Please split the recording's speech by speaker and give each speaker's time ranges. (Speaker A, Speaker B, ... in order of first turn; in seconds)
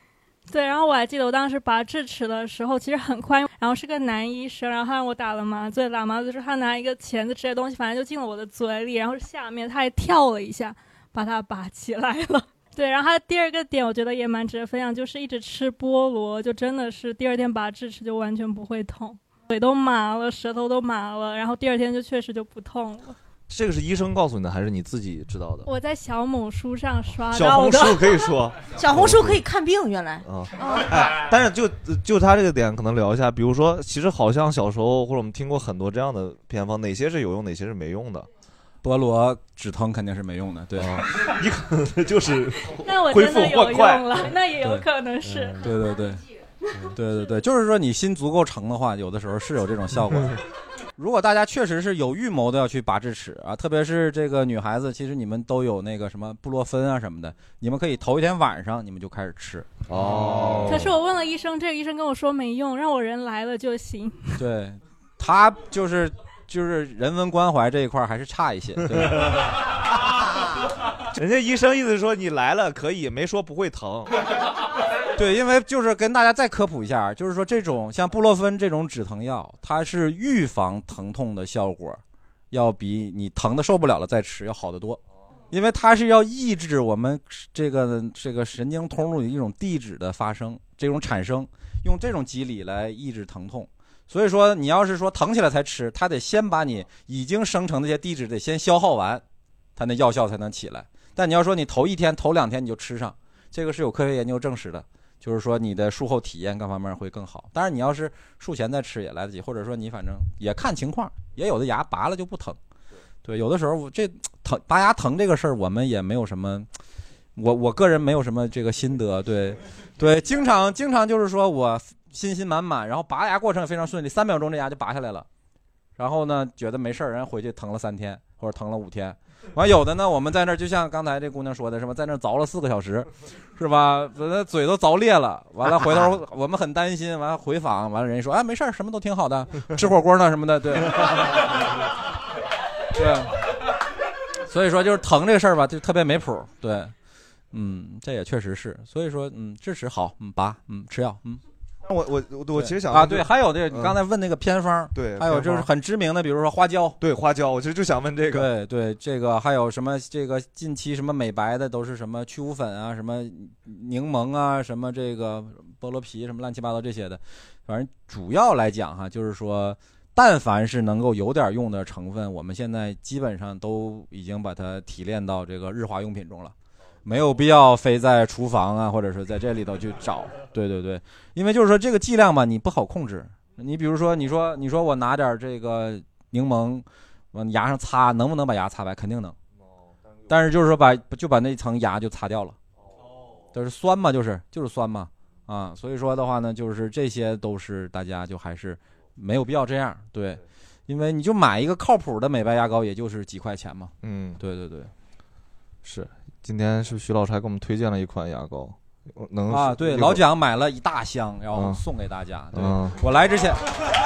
Speaker A: 0.5-23.2, 25.7-27.9, 42.8-45.7, 60.7-64.4
Speaker B: 23.5-25.7, 27.3-29.4, 30.2-38.3, 40.8-44.2, 59.9-60.9, 71.1-74.1, 151.8-154.0, 154.9-155.7, 157.0-158.5, 204.0-204.4, 205.8-210.2, 211.5-211.8, 212.5-213.0
Speaker C: 27.4-28.0, 28.7-30.9
Speaker D: 38.8-41.0, 44.6-44.9, 45.6-46.2, 46.9-50.4, 51.0-60.8, 64.4-69.4, 75.2-85.0, 85.5-99.2, 99.8-112.6, 113.2-116.7, 117.4-125.3, 126.0-141.5, 142.9-143.4, 144.5-146.9, 147.5-151.4, 152.5-157.0, 158.3-176.5, 177.1-189.4, 190.3-192.6, 193.5-204.9, 209.5-213.7